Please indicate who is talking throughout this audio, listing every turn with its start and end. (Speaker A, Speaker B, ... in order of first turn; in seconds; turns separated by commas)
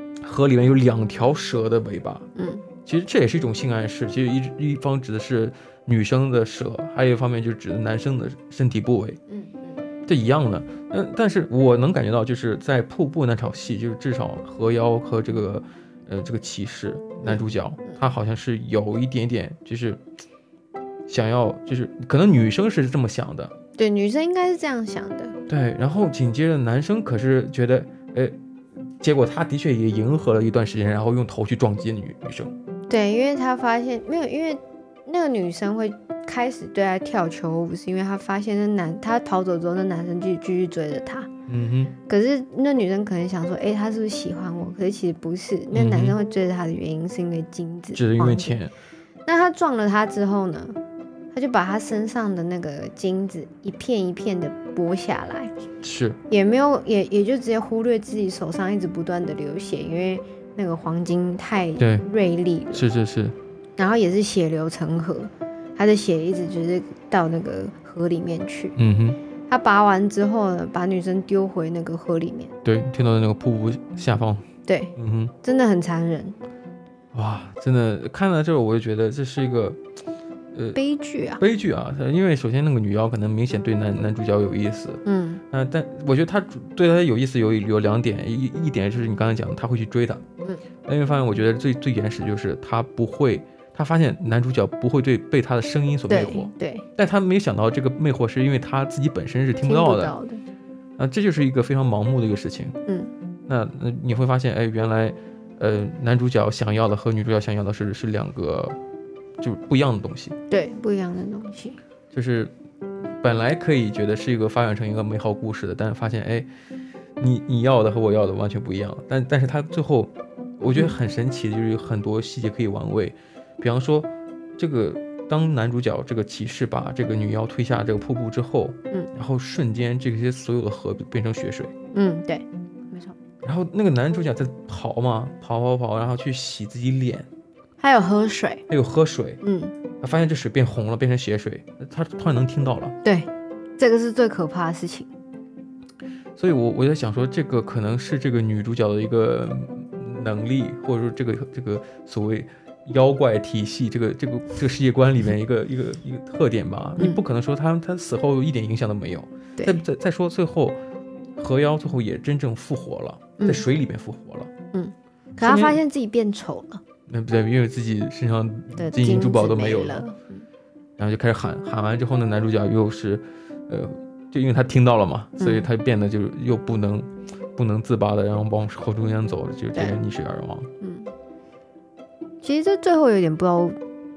Speaker A: 0.2-2.3, Speaker B: 2.4-2.6, Speaker A: 2.8-9.2, Speaker B: 9.3-9.8, Speaker A: 10.1-20.0, Speaker B: 17.2-18.0, Speaker A: 21.1-23.5, Speaker B: 23.8-25.4, Speaker A: 25.5-28.3, Speaker A: 29.0-32.5, Speaker B: 32.9-41.3, Speaker A: 41.5-41.9, Speaker B: 42.1-48.6, Speaker A: 45.7-46.1, Speaker A: 47.9-48.7, Speaker B: 49.3-50.8, Speaker B: 51.3-55.5, Speaker A: 55.8-56.2, Speaker B: 56.3-62.8, Speaker A: 61.8-62.0, Speaker A: 62.7-63.4, Speaker B: 63.8-68.8, Speaker A: 68.8-69.2, Speaker B: 69.5-72.5, Speaker A: 72.6-74.4, Speaker B: 74.7-76.4, Speaker A: 75.0-75.3, Speaker A: 77.1-79.8, Speaker B: 80.7-81.4, Speaker A: 81.4-90.2, Speaker B: 85.0-85.4, Speaker A: 90.8-100.1, Speaker B: 96.1-96.8, Speaker B: 99.6-100.4, Speaker A: 101.0-102.8, Speaker A: 103.5-108.8, Speaker A: 109.4-110.4, Speaker B: 110.5-111.8, Speaker A: 112.1-112.5, Speaker A: 113.2-116.5, Speaker A: 117.2-131.7, Speaker B: 131.9-133.2, Speaker A: 133.4-137.3, Speaker B: 137.8-138.6, Speaker A: 138.7-139.4, Speaker B: 139.4-139.7, Speaker A: 140.0-142.9, Speaker B: 143.0-145.1, Speaker A: 146.4-160.8, Speaker B: 159.6-159.8, Speaker A: 161.4-164.5, Speaker B: 163.4-163.6, Speaker B: 164.7-166.8, Speaker A: 165.4-165.8, Speaker A: 167.1-170.1, Speaker B: 168.8-170.4, Speaker A: 171.0-180.7, Speaker B: 175.4-175.7, Speaker B: 179.7-180.0, Speaker B: 180.8-181.1, Speaker B: 182.4-183.8